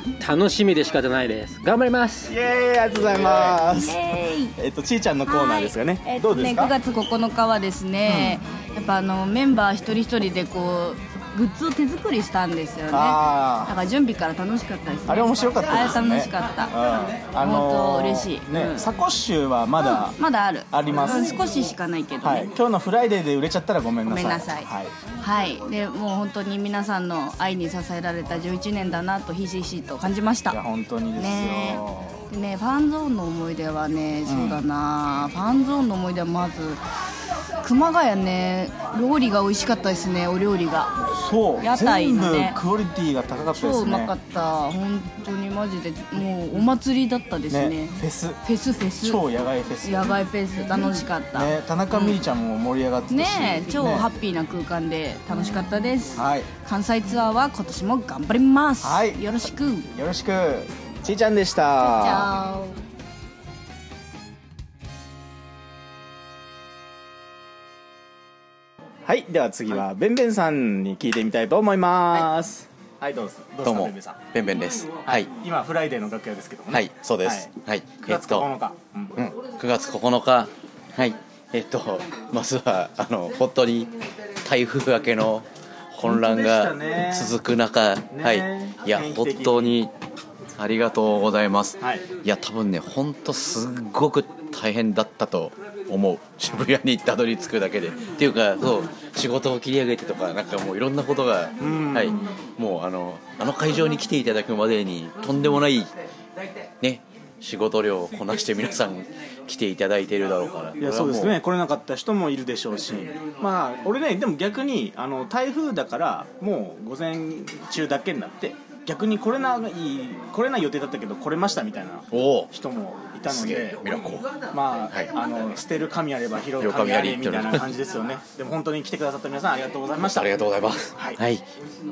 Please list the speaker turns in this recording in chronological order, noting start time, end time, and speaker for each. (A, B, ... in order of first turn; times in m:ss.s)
0:00.2-0:02.3 A
0:02.2-0:06.7 B
0:03.3-0:04.5 C
0:05.3-0:16.7 C
0:08.1-0:08.4 B
0:12.9-0:13.8 B
0:15.1-0:20.2 B
0:17.4-0:18.8 C
0:19.8-0:22.5 C
0:20.7-0:24.9 B
0:24.1-0:24.7 C
0:25.2-0:30.6 C
0:30.5-0:32.2 B
0:31.2-0:36.8 C
0:34.3-0:34.6 B
0:37.6-0:41.0 C
0:41.1-0:44.1 B
0:41.6-0:42.6 C
0:43.5-0:49.2 C
0:47.5-0:48.4 B
0:49.0-0:50.2 B
0:49.8-0:52.2 C
0:51.3-0:54.1 B
0:53.1-0:59.9 C
0:56.1-0:56.5 B
0:58.8-0:59.2 B
0:59.9-1:02.3 B
1:01.8-1:02.8 C
1:09.1-1:14.2 B
1:13.6-1:15.3 D
1:15.1-1:17.5 B
1:16.7-1:18.5 D
1:18.0-1:19.2 B
1:19.2-1:23.9 D
1:24.4-1:29.9 D
1:26.0-1:27.3 B
1:28.1-1:29.8 B
1:30.6-1:45.9 D
1:41.6-1:42.3 B
1:46.8-1:51.4 D
1:50.8-2:03.8 B
2:02.1-2:02.5 D
2:03.3-2:04.3 D
2:04.5-2:10.4 B
2:06.6-2:07.7 D
2:10.0-2:11.4 D